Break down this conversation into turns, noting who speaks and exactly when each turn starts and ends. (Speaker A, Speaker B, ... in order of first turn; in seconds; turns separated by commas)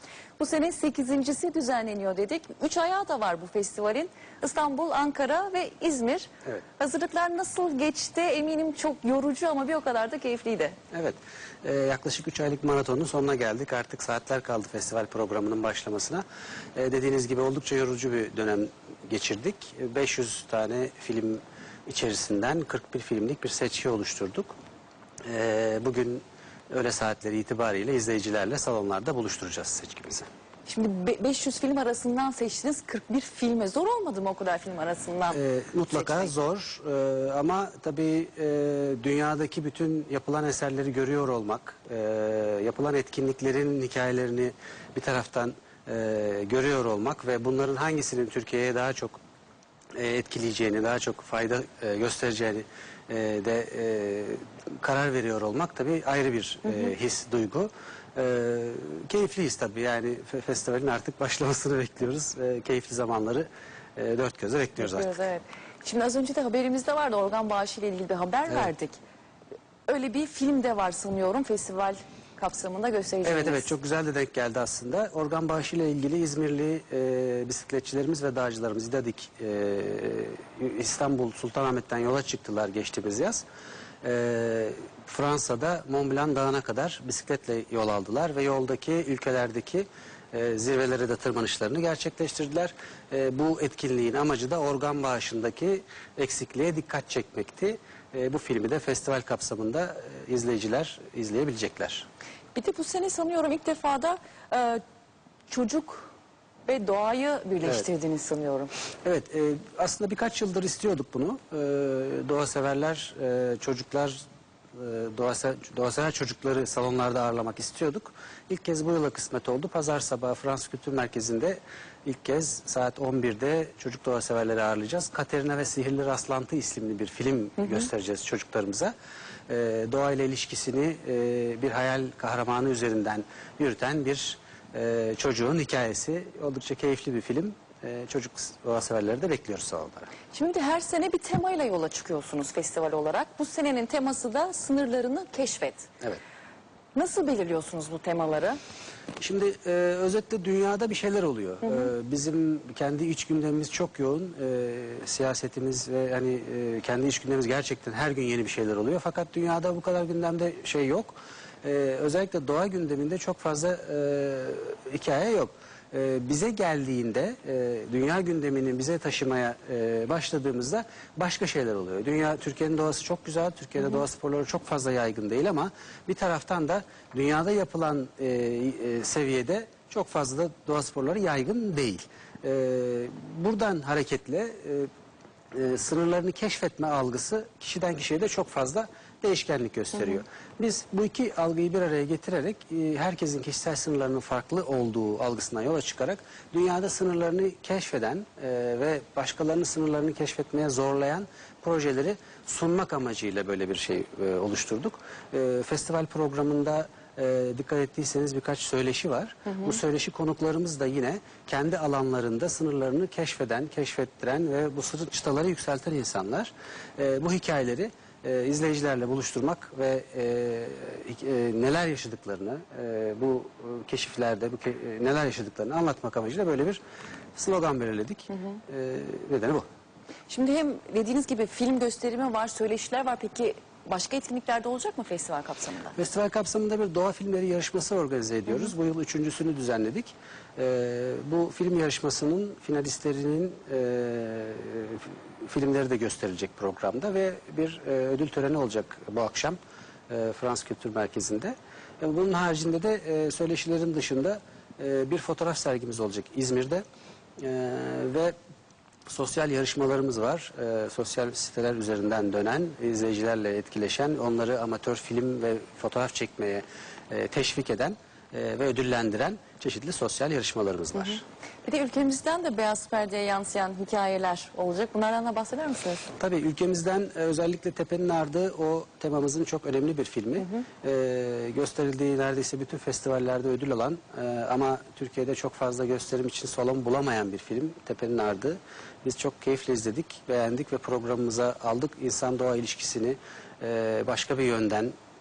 Speaker A: 0.4-10.8, Speaker B: 10.9-16.2, Speaker B: 16.8-24.5, Speaker B: 25.2-30.3, Speaker A: 30.7-36.3, Speaker B: 35.3-49.2, Speaker B: 50.0-65.2, Speaker A: 64.8-69.0, Speaker A: 69.9-73.7, Speaker B: 73.2-83.5, Speaker B: 84.0-102.1, Speaker A: 102.5-104.8, Speaker A: 105.5-106.1, Speaker A: 106.7-108.7, Speaker B: 109.0-114.2, Speaker B: 114.8-128.9, Speaker B: 129.5-140.1, Speaker A: 140.3-145.9, Speaker A: 146.9-148.6, Speaker B: 149.2-184.9, Speaker B: 185.5-226.8, Speaker B: 227.3-229.7, Speaker A: 230.3-236.0, Speaker B: 236.0-256.8, Speaker B: 257.4-258.4, Speaker B: 259.1-271.2, Speaker A: 271.6-276.1, Speaker B: 276.2-294.9